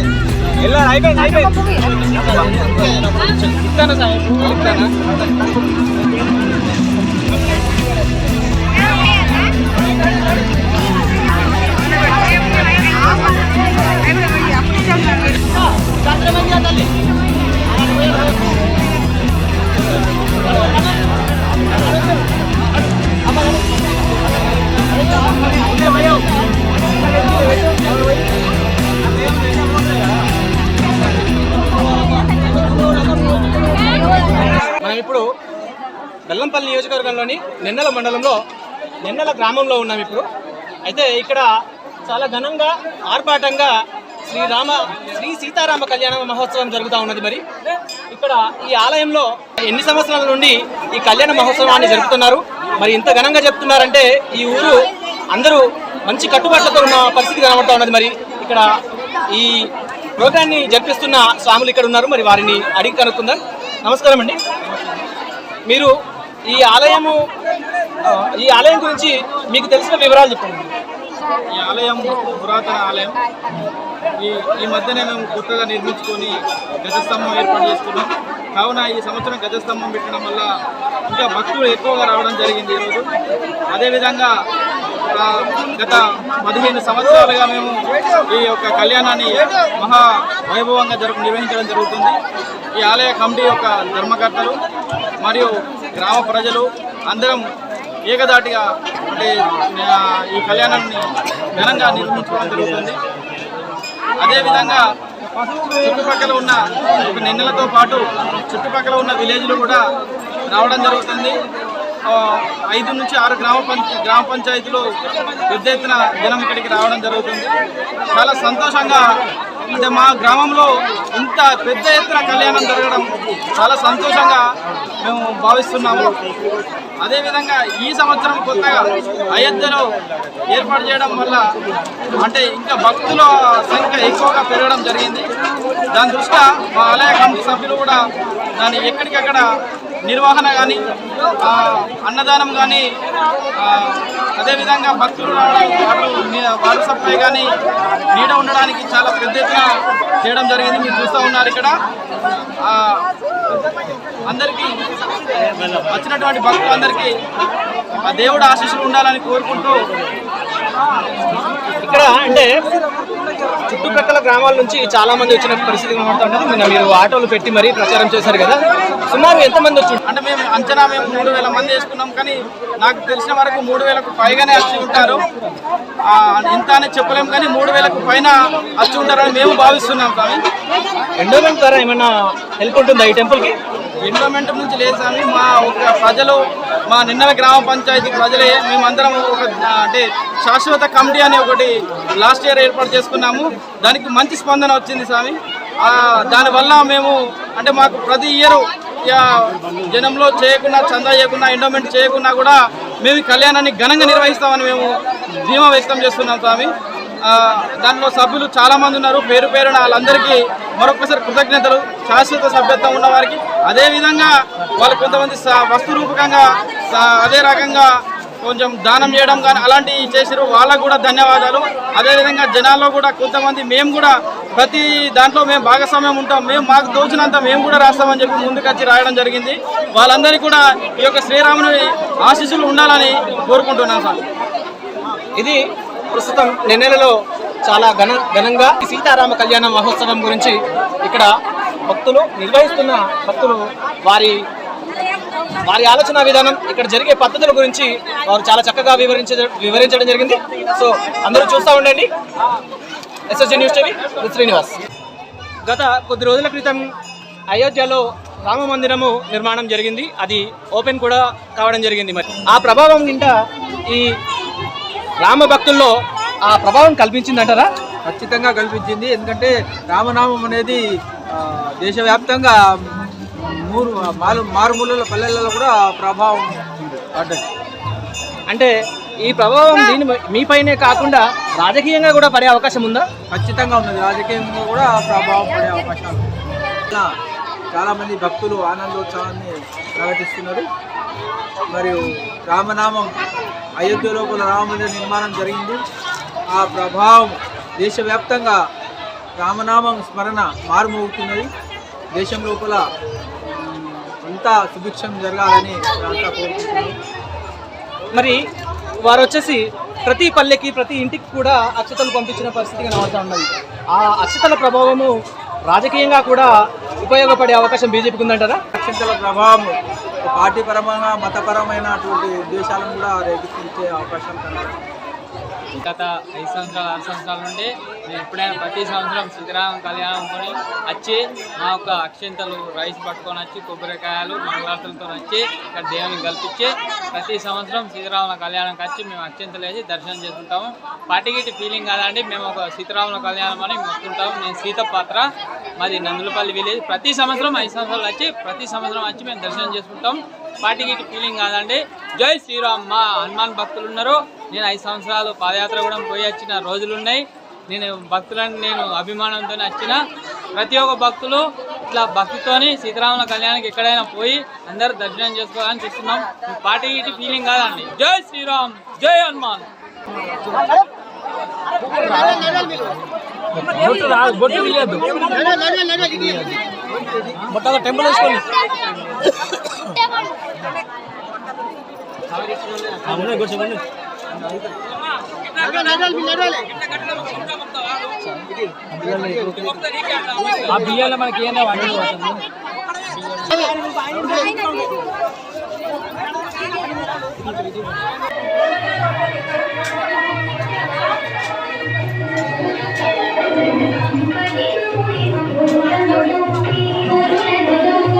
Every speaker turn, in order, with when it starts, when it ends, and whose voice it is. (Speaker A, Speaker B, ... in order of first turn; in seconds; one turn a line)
Speaker A: 0.6-4.9
Speaker A: 16.1-16.8
Speaker A: 25.7-26.2
Speaker A: 34.7-35.2
Speaker A: 36.3-38.4
Speaker A: 39.0-40.3
Speaker A: 40.9-41.5
Speaker A: 42.0-43.7
Speaker A: 44.2-47.4
Speaker A: 48.1-54.8
Speaker A: 55.3-58.6
Speaker A: 59.3-64.4
Speaker A: 65.7-65.9
Speaker A: 66.5-67.2
Speaker A: 68.0-70.7
Speaker B: 71.6-73.2
Speaker B: 74.2-80.5
Speaker B: 81.1-83.1
Speaker B: 83.7-84.3
Speaker B: 85.1-87.7
Speaker B: 88.3-92.2
Speaker B: 92.8-94.6
Speaker B: 95.2-97.5
Speaker B: 98.1-103.0
Speaker B: 104.2-104.8
Speaker B: 105.6-109.8
Speaker B: 110.5-111.4
Speaker B: 112.1-114.8
Speaker B: 115.5-117.5
Speaker B: 118.1-119.0
Speaker B: 119.7-124.4
Speaker B: 125.0-126.1
Speaker B: 127.0-129.8
Speaker B: 130.5-131.5
Speaker B: 132.2-135.3
Speaker B: 135.9-138.0
Speaker B: 138.6-139.4
Speaker B: 140.1-140.8
Speaker B: 141.4-142.8
Speaker B: 143.6-147.5
Speaker B: 148.1-151.7
Speaker B: 152.7-153.0
Speaker B: 154.3-154.7
Speaker B: 155.9-157.1
Speaker B: 158.0-159.8
Speaker A: 161.8-162.5
Speaker A: 163.6-170.0
Speaker B: 170.1-175.3
Speaker B: 176.1-180.4
Speaker A: 181.2-183.5
Speaker B: 184.1-186.4
Speaker B: 186.9-206.7
Speaker B: 207.3-234.2
Speaker A: 236.1-241.3
Speaker A: 241.9-244.4
Speaker A: 245.6-252.1
Speaker A: 253.3-254.8
Speaker A: 255.6-256.8
Speaker A: 257.5-263.4
Speaker A: 265.2-265.9
Speaker A: 266.5-267.7
Speaker C: 268.1-270.8
Speaker C: 271.3-277.1
Speaker A: 277.1-277.4
Speaker A: 279.2-283.1
Speaker C: 283.3-286.3
Speaker C: 287.7-290.7
Speaker C: 291.7-293.1
Speaker C: 293.8-295.8
Speaker C: 296.6-298.6
Speaker C: 299.4-301.5
Speaker C: 302.1-302.8
Speaker C: 303.5-307.0
Speaker A: 309.0-315.1
Speaker A: 315.7-316.5
Speaker A: 317.0-318.6
Speaker C: 318.8-324.8
Speaker D: 325.8-360.0
Speaker D: 360.6-369.7
Speaker A: 371.9-372.6
Speaker A: 373.6-376.6
Speaker A: 377.4-378.6
Speaker A: 382.9-383.8
Speaker A: 387.1-387.4
Speaker A: 388.9-389.8
Speaker D: 390.7-392.4